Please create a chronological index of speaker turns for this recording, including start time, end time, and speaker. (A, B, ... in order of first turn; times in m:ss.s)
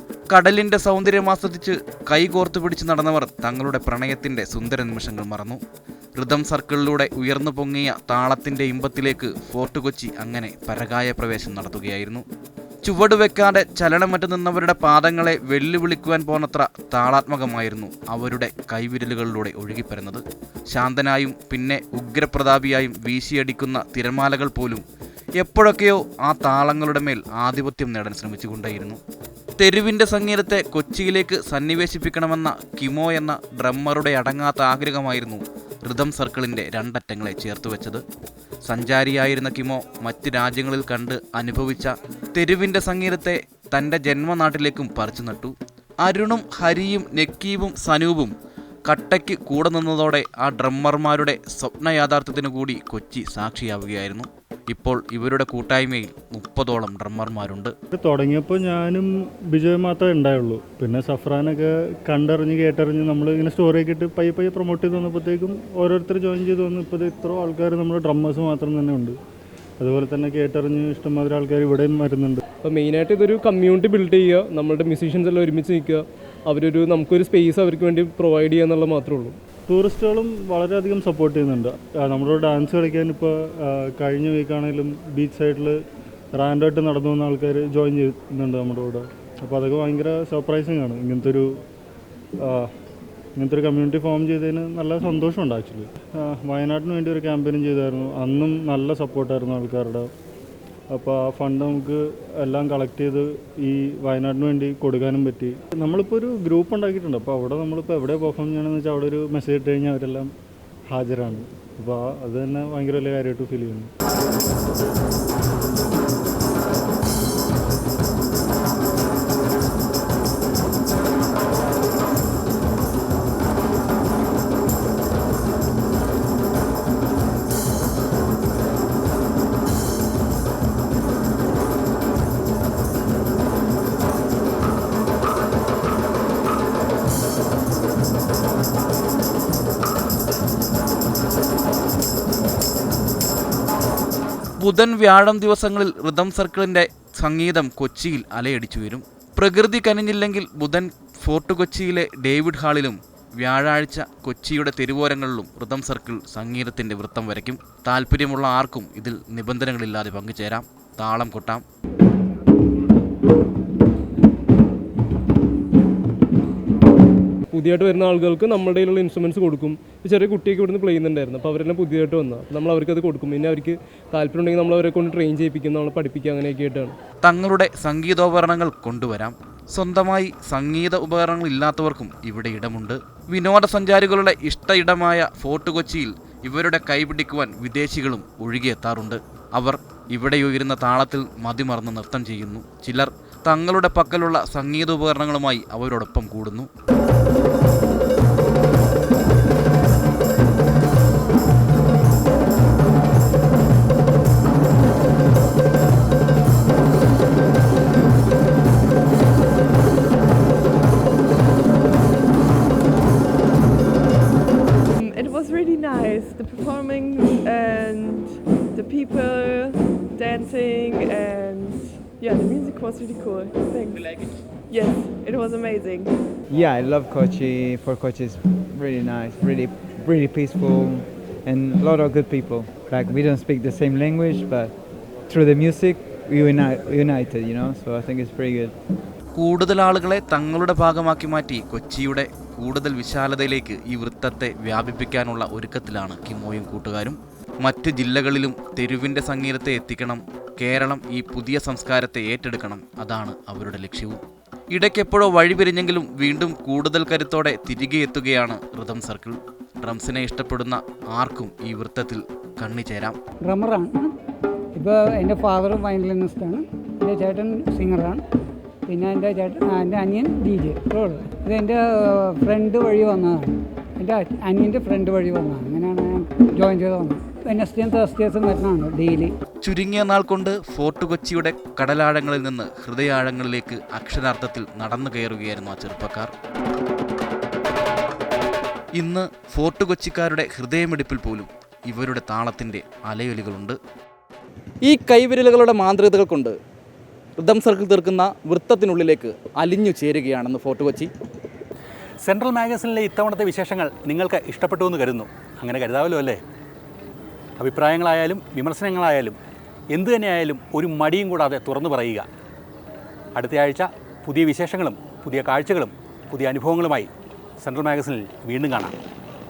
0:00.3-0:05.6 A
0:06.2-0:12.2 A
0:12.8-0:24.8 A
0:25.4-0:29.0 A
0:29.6-0:38.0 A
0:38.7-0:48.3 A
0:48.9-0:57.7 A
0:57.9-1:09.2 B
1:09.8-1:12.4 B
1:12.6-1:19.4 C
1:19.7-1:25.8 B
1:26.3-1:31.5 B
1:32.4-1:32.7 B
1:33.4-1:40.1 B
1:40.9-1:50.3 B
1:50.9-1:53.9 B
2:24.6-2:41.6 A
2:47.5-2:57.0 C
2:57.2-3:16.7 A
3:35.0-3:46.2 D
3:46.5-3:54.8 E
3:55.3-3:58.8 E
3:59.4-4:14.2 A
4:14.7-4:23.2 A
4:23.4-4:24.1 F
4:24.8-4:28.2 F
4:28.9-4:39.3 F
4:39.6-4:46.3 A
4:49.0-4:53.8 A
4:54.8-4:56.6 G
4:57.4-5:01.1 G
5:02.2-5:06.4 H
5:07.6-5:09.4 H
5:09.9-5:12.3 H
5:13.4-5:17.1 H
5:17.6-5:19.0 H